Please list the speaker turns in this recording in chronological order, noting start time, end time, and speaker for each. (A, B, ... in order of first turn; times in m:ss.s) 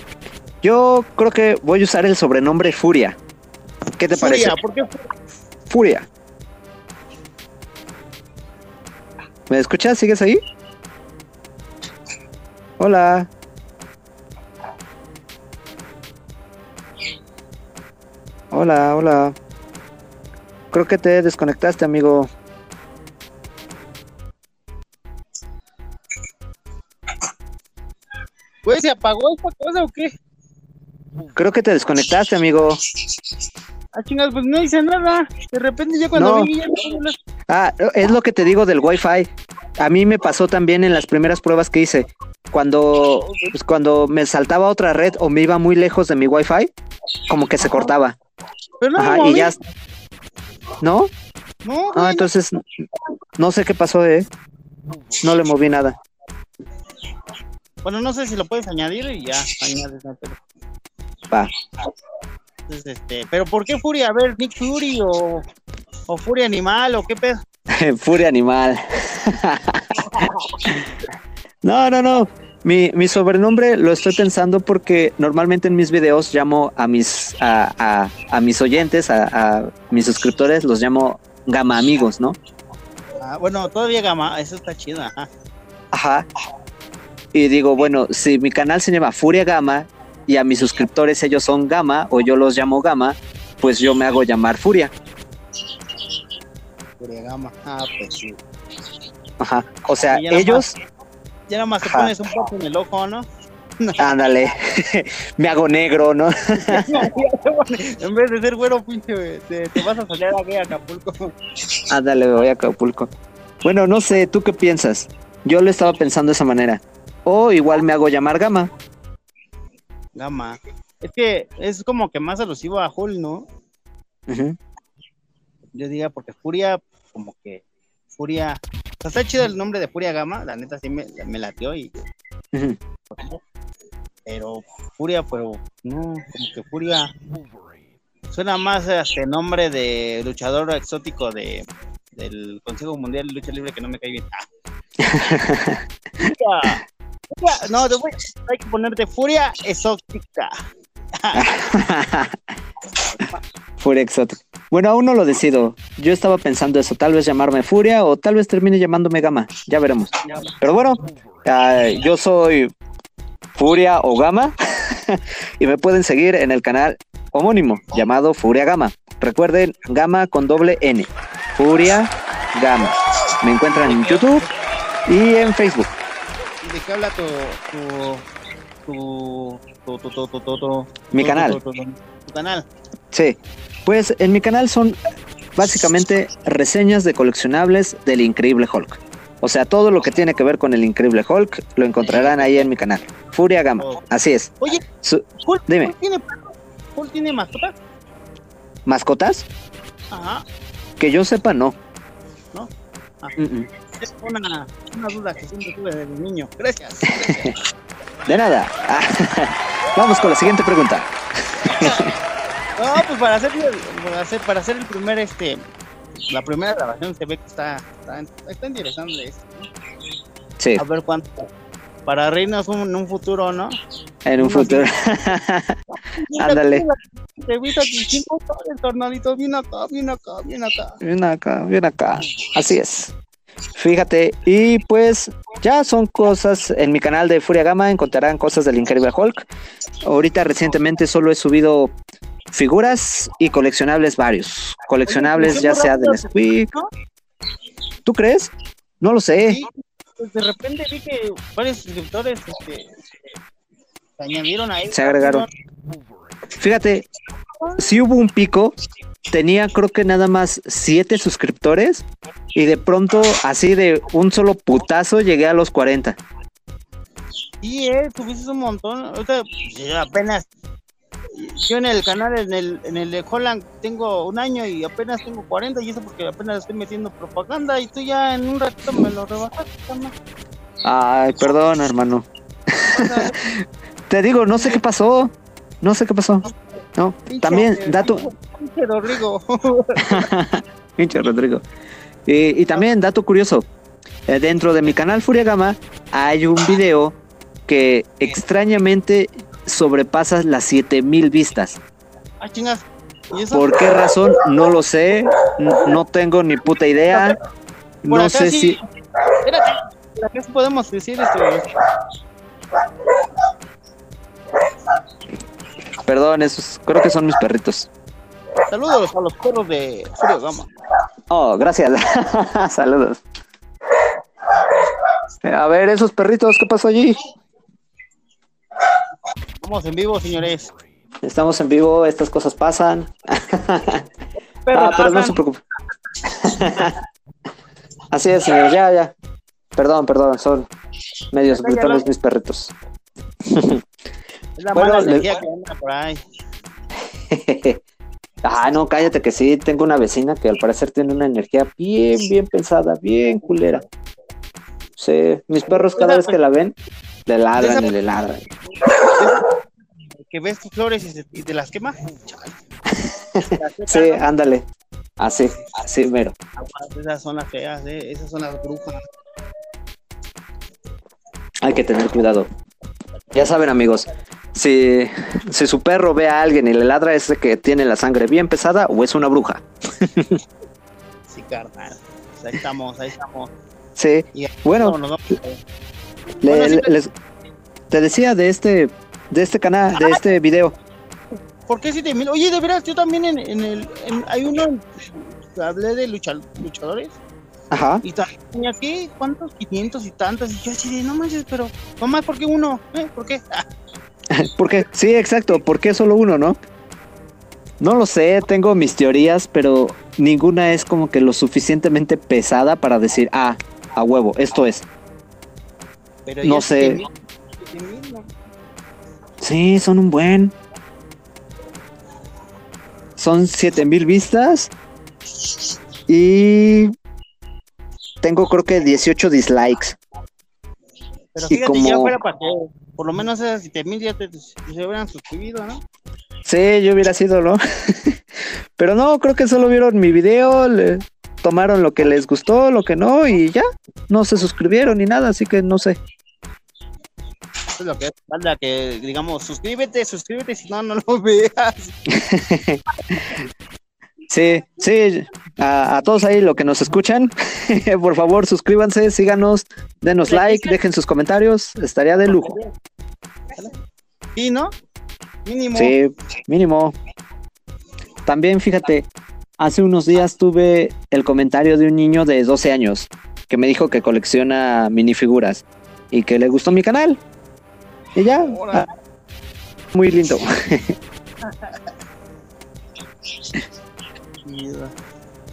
0:00.6-0:03.2 A
0:04.0-0:04.5 A
0:04.1-0:05.0 B
0:05.7-0:06.1 A
0:09.5-0:10.4 A
0:12.8-0:13.3 A
0:18.5-0:19.3 A
0:20.7-0:22.3 A
0:28.6-0:30.1 B
0:31.4-0:32.8 A
0:33.9-0:37.2 B
0:36.1-0:36.5 A
0:37.5-0:46.7 A
0:47.3-0:48.1 A
0:48.8-0:49.5 B
0:49.0-0:49.6 A
0:50.8-0:51.1 A
0:51.6-0:52.3 B
0:52.0-0:52.6 A
0:53.4-0:54.3 A
0:55.2-0:56.0 A
0:57.8-1:00.4 B
1:02.7-1:05.4 B
1:06.1-1:07.4 B
1:07.7-1:10.2 A
1:10.0-1:10.7 B
1:11.6-1:22.4 A
1:23.2-1:25.3 B
1:25.9-1:26.2 A
1:27.3-1:34.9 A
1:37.0-1:38.4 B
1:39.4-1:40.7 A
1:40.1-1:40.6 B
1:41.5-1:43.2 B
1:41.8-1:42.1 A
1:43.8-1:44.2 B
1:44.0-1:47.0 A
1:46.6-1:51.3 B
1:51.9-1:53.1 A
1:53.6-1:58.7 A
2:00.2-2:03.4 B
2:04.3-2:04.6 A
2:05.7-2:12.1 B
2:14.2-2:17.1 B
2:18.3-2:21.6 B
2:22.2-2:24.4 B
2:25.0-2:25.8 A
2:26.2-2:26.8 B
2:27.3-2:30.5 B
2:31.2-2:31.6 B
2:31.4-2:32.4 A
2:33.8-2:42.7 A
2:40.2-2:40.5 B
2:43.6-2:54.4 A
2:53.7-2:54.5 B
2:55.1-2:55.9 A
2:56.6-2:58.2 B
2:58.9-3:02.6 B
3:01.1-3:01.6 A
3:03.1-3:05.0 A
3:05.6-3:15.9 A
3:12.0-3:12.7 B
3:15.4-3:17.8 B
3:18.8-3:19.4 A
3:20.1-3:20.4 B
3:21.0-3:21.8 A
3:23.4-3:23.7 A
3:24.0-3:27.5 B
3:28.3-3:31.1 A
3:31.7-3:32.1 A
3:32.8-3:35.6 B
3:36.3-3:39.7 B
3:40.8-3:41.5 B
3:42.0-3:43.7 B
3:44.2-3:45.8 A
3:44.4-3:44.9 B
3:46.2-3:51.0 B
3:46.4-3:46.8 A
3:51.0-3:53.1 A
3:53.7-3:59.5 A
4:00.0-4:01.9 A
4:02.5-4:06.7 A
4:05.1-4:06.9 B
4:08.0-4:09.6 A
4:09.5-4:12.9 B
4:14.2-4:15.5 B
4:14.9-4:15.5 A
4:16.6-4:17.1 A
4:17.8-4:18.7 A
4:19.3-4:22.0 A
4:22.5-4:26.2 A
4:27.6-4:30.5 B
4:31.4-4:40.1 B
4:40.8-4:43.5 A
4:42.9-4:43.5 B
4:44.1-4:48.2 A
4:47.3-4:50.3 B
4:50.0-4:51.6 A
4:52.2-4:53.6 A
4:54.3-4:57.2 A
4:57.7-5:01.8 A
5:02.4-5:03.9 B
5:03.5-5:07.4 A
5:08.0-5:08.8 A
5:08.1-5:08.8 B
5:09.4-5:11.7 B
5:16.0-5:17.9 A
5:18.7-5:20.7 B
5:21.3-5:23.2 A
5:25.4-5:27.2 A
5:29.6-5:30.7 B
5:31.2-5:34.0 A
5:34.6-5:35.4 B
5:34.7-5:35.6 A
5:36.2-5:36.9 A
5:38.1-5:39.1 A
5:39.7-5:40.7 A
5:41.3-5:42.7 A
5:41.5-5:42.0 B
5:43.5-5:43.8 A
5:44.6-5:46.2 B
5:44.7-5:45.3 A
5:47.3-5:47.8 A
5:48.4-5:53.8 A
5:55.0-5:56.7 A
5:55.9-5:56.4 B
5:57.3-5:58.4 A
5:57.6-5:57.9 B
5:59.1-5:59.5 B
6:00.3-6:02.5 B
6:03.0-6:04.6 A
6:03.4-6:04.2 B
6:05.2-6:06.3 A
6:06.6-6:09.0 B
6:11.6-6:12.5 A
6:13.3-6:20.4 A
6:21.3-6:23.5 B
6:24.0-6:25.0 A
6:24.3-6:25.6 B
6:26.4-6:27.0 B
6:26.4-6:27.1 A
6:27.9-6:30.7 A
6:31.7-6:37.2 B
6:37.7-6:38.0 A
6:38.0-6:43.6 B
6:44.3-6:46.6 A
6:47.8-6:54.8 A
6:56.2-6:58.3 B
6:56.4-6:57.0 A
6:59.4-7:00.5 A
7:03.2-7:04.7 A
7:06.1-7:06.9 A
7:08.2-7:10.0 A
7:11.3-7:15.8 B
7:11.5-7:12.1 A
7:16.4-7:18.2 A
7:18.8-7:26.0 A
7:27.8-7:31.9 B
7:32.1-7:33.5 A
7:34.3-7:42.5 A
7:40.2-7:40.8 B
7:42.2-7:42.7 B
7:44.4-7:44.7 B
7:45.4-7:45.9 B
7:45.7-7:46.9 A
7:48.2-7:49.1 A
7:49.6-7:57.2 A
7:58.1-7:58.8 A
7:58.4-7:58.9 B
7:59.9-8:01.0 A
8:01.5-8:01.8 B
8:04.4-8:04.9 B